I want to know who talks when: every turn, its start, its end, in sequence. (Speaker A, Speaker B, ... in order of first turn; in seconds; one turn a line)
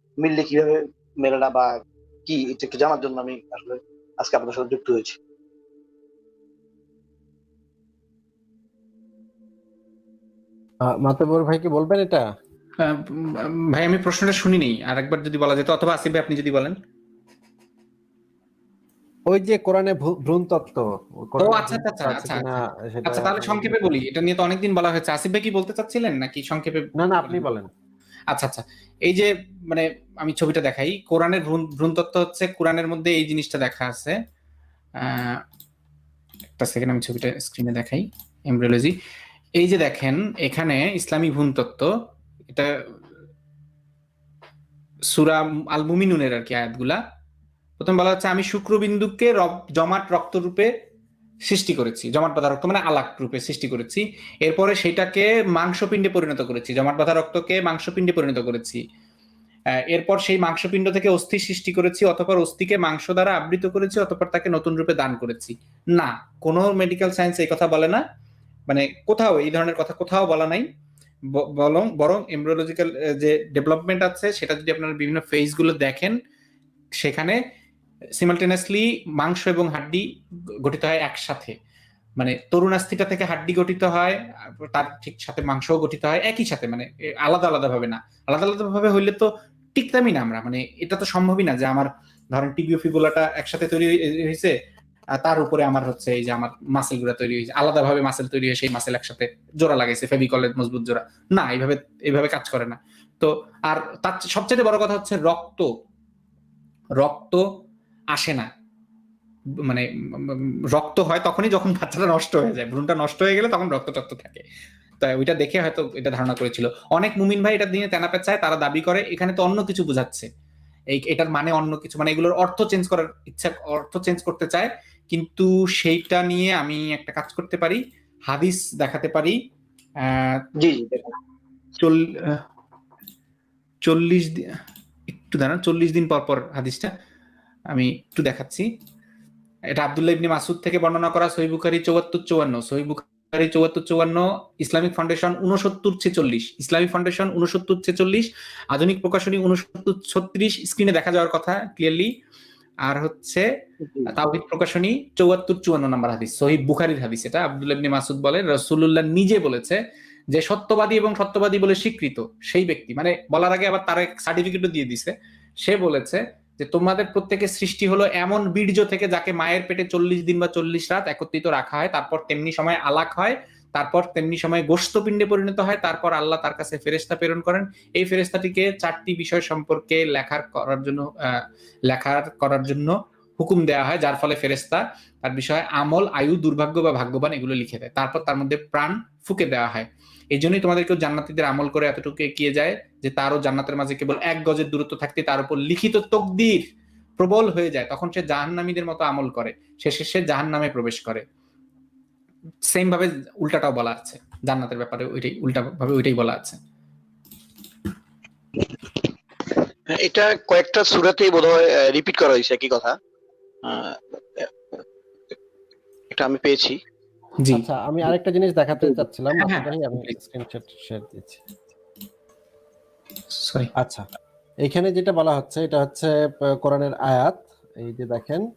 Speaker A: 0.2-5.2
Speaker B: 10.8-12.2
Speaker C: 12.8-16.8
Speaker B: 19.3-23.8
Speaker C: 21.4-22.5
Speaker C: 23.0-27.4
Speaker B: 27.0-27.7
Speaker C: 28.3-34.2
Speaker C: 35.0-35.4
Speaker C: 36.6-38.9
Speaker C: 39.6-41.9
Speaker C: 45.1-47.0
Speaker C: 47.8-50.7
Speaker C: 51.4-58.8
Speaker C: 59.9-68.0
Speaker C: 68.7-70.7
Speaker C: 71.2-76.2
Speaker C: 77.0-77.4
Speaker C: 78.2-80.0
Speaker C: 80.6-81.5
Speaker C: 82.2-94.5
Speaker C: 95.2-105.7
Speaker C: 107.0-107.4
Speaker C: 108.1-108.5
Speaker C: 109.6-114.4
Speaker C: 115.0-120.3
Speaker C: 120.9-129.4
Speaker C: 130.0-130.4
Speaker A: 130.6-131.1
Speaker C: 131.8-132.4
Speaker C: 133.8-134.6
Speaker C: 135.1-136.9
Speaker C: 137.7-138.7
Speaker C: 139.7-152.1
Speaker C: 152.8-153.4
Speaker C: 154.1-159.8
Speaker C: 160.3-196.6
Speaker C: 197.2-201.2
Speaker C: 202.7-206.6
Speaker A: 209.9-212.9
Speaker A: 213.6-214.8
Speaker A: 216.1-216.8
Speaker C: 217.4-217.7
Speaker B: 217.5-221.4
Speaker C: 218.9-220.1
Speaker C: 223.3-223.7
Speaker B: 223.8-224.0
Speaker B: 224.6-228.5